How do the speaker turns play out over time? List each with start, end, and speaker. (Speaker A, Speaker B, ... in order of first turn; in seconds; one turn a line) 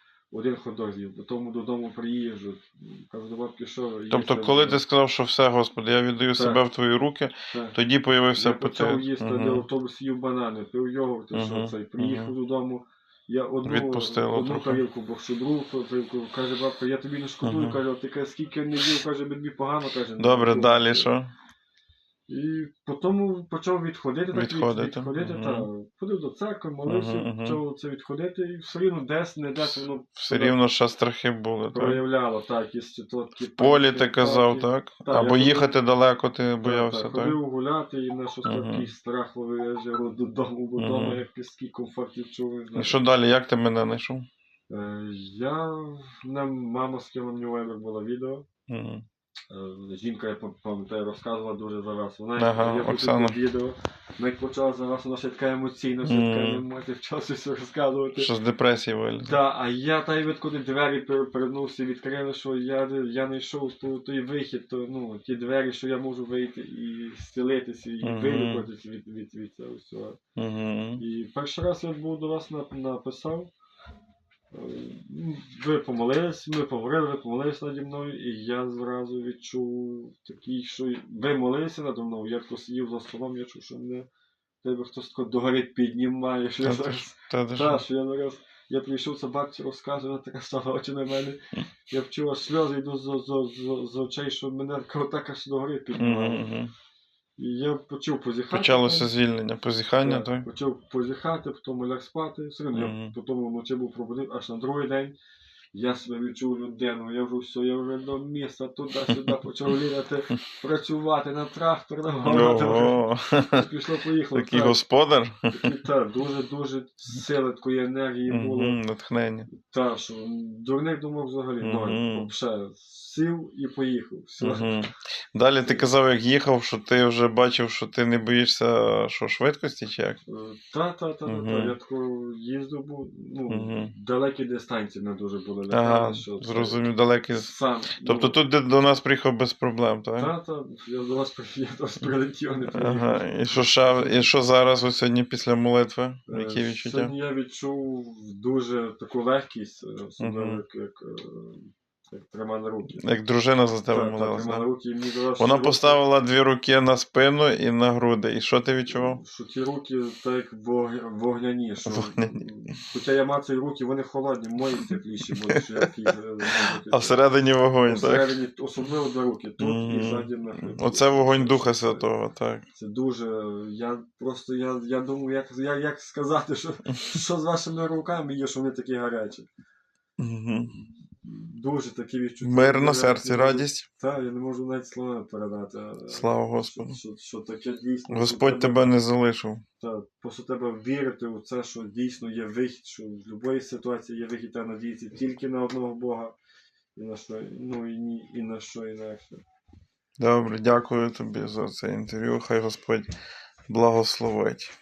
Speaker A: 0.3-4.8
Speaker B: 4.1-9.7
Speaker A: 6.3-6.6
Speaker A: 7.5-7.8
Speaker A: 8.3-21.1
Speaker B: 11.3-12.3
Speaker B: 13.6-14.8
Speaker B: 17.4-17.8
Speaker B: 20.2-21.3
Speaker A: 22.3-30.6
Speaker B: 24.3-25.7
Speaker B: 26.9-27.6
Speaker B: 29.6-32.0
Speaker A: 31.7-35.7
Speaker B: 33.6-37.4
Speaker A: 36.6-43.0
Speaker B: 38.4-38.9
Speaker B: 40.8-41.2
Speaker B: 42.7-44.3
Speaker A: 44.7-48.5
Speaker B: 48.7-49.0
Speaker A: 49.5-58.3
Speaker B: 52.4-53.4
Speaker B: 56.0-56.6
Speaker B: 58.1-59.3
Speaker A: 59.2-70.2
Speaker B: 68.0-68.7
Speaker B: 70.4-71.0
Speaker A: 71.0-73.5
Speaker A: 74.5-84.1
Speaker A: 84.6-96.5
Speaker B: 86.6-87.8
Speaker B: 95.9-96.7
Speaker A: 97.4-99.1
Speaker B: 98.5-100.5
Speaker A: 100.0-105.2
Speaker B: 102.7-103.1
Speaker A: 105.7-114.8
Speaker B: 112.2-113.7
Speaker B: 114.3-115.7
Speaker A: 115.5-118.8
Speaker B: 118.3-119.5
Speaker A: 119.5-124.7
Speaker B: 121.6-122.3
Speaker B: 124.4-130.2
Speaker A: 130.3-138.4
Speaker B: 131.2-131.7
Speaker B: 133.5-133.9
Speaker B: 135.7-140.3
Speaker A: 140.2-144.3
Speaker B: 142.7-147.1
Speaker A: 146.3-153.0
Speaker B: 150.2-150.6
Speaker B: 153.0-154.7
Speaker A: 153.9-156.0
Speaker B: 155.4-159.2
Speaker A: 158.9-167.2
Speaker B: 161.8-162.5
Speaker B: 165.5-165.8
Speaker B: 166.9-168.4
Speaker A: 167.8-172.1
Speaker B: 169.6-172.6
Speaker A: 172.7-179.5
Speaker B: 180.2-180.7
Speaker A: 180.7-188.9
Speaker B: 182.4-183.9
Speaker B: 186.1-187.0
Speaker B: 188.1-189.6
Speaker A: 189.8-196.3
Speaker A: 196.9-199.4
Speaker B: 200.2-203.1
Speaker B: 203.7-204.7